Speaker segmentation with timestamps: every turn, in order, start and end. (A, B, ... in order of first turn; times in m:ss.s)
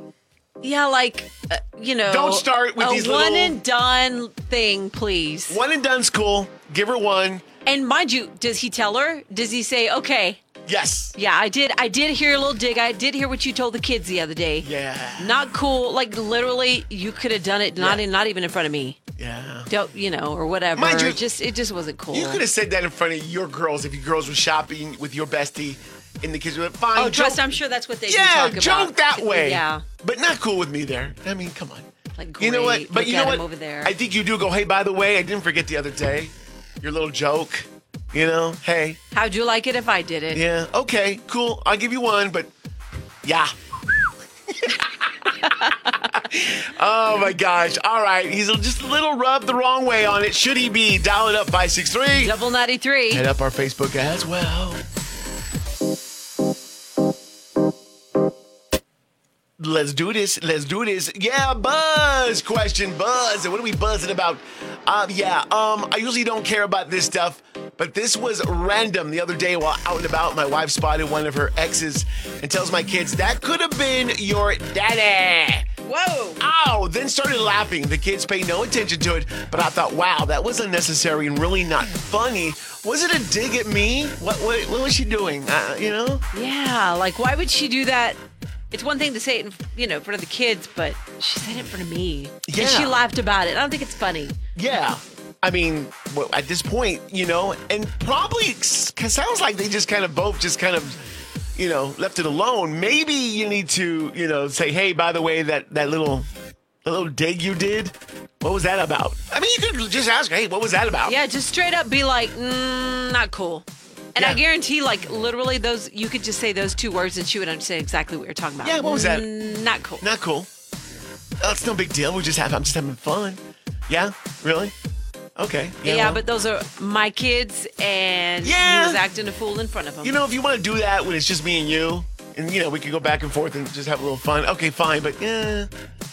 0:00.6-0:05.6 A
0:02.0-0:03.6 B
0:05.5-0:07.4 B
0:07.6-0:10.4 A
0:10.6-0:11.1 B
0:11.1-0:14.7 A
0:14.6-0:15.4 B
0:15.2-0:19.0 A
0:17.8-0:18.0 B
0:19.2-0:19.7 B
0:19.7-0:22.4 A
0:20.7-0:21.2 B
0:22.1-0:27.4 B
0:26.9-0:29.8 A
0:28.0-0:31.9 B
0:32.2-0:33.9 A
0:32.4-0:39.0 B
0:39.1-0:40.4 A
0:40.3-0:42.5 B
0:43.2-0:45.3 B
0:45.4-0:46.0 A
0:46.0-0:52.3 B
0:52.2-0:53.2 A
0:53.1-0:54.8 B
0:59.6-1:15.7 B
1:15.8-1:16.4 A
1:16.4-1:26.2 B
1:26.3-1:28.2 A
1:28.7-1:34.4 A
1:32.4-1:33.0 B
1:34.5-1:41.0 B
1:41.5-1:46.3 B
1:46.8-1:51.2 B
1:51.0-2:00.0 A
1:54.2-1:54.4 B
1:58.6-1:59.3 B
2:00.0-2:00.5 B
2:01.4-2:04.7 B
2:05.4-2:06.2 B
2:05.8-2:10.2 A
2:08.4-2:09.0 B
2:10.0-2:15.7 B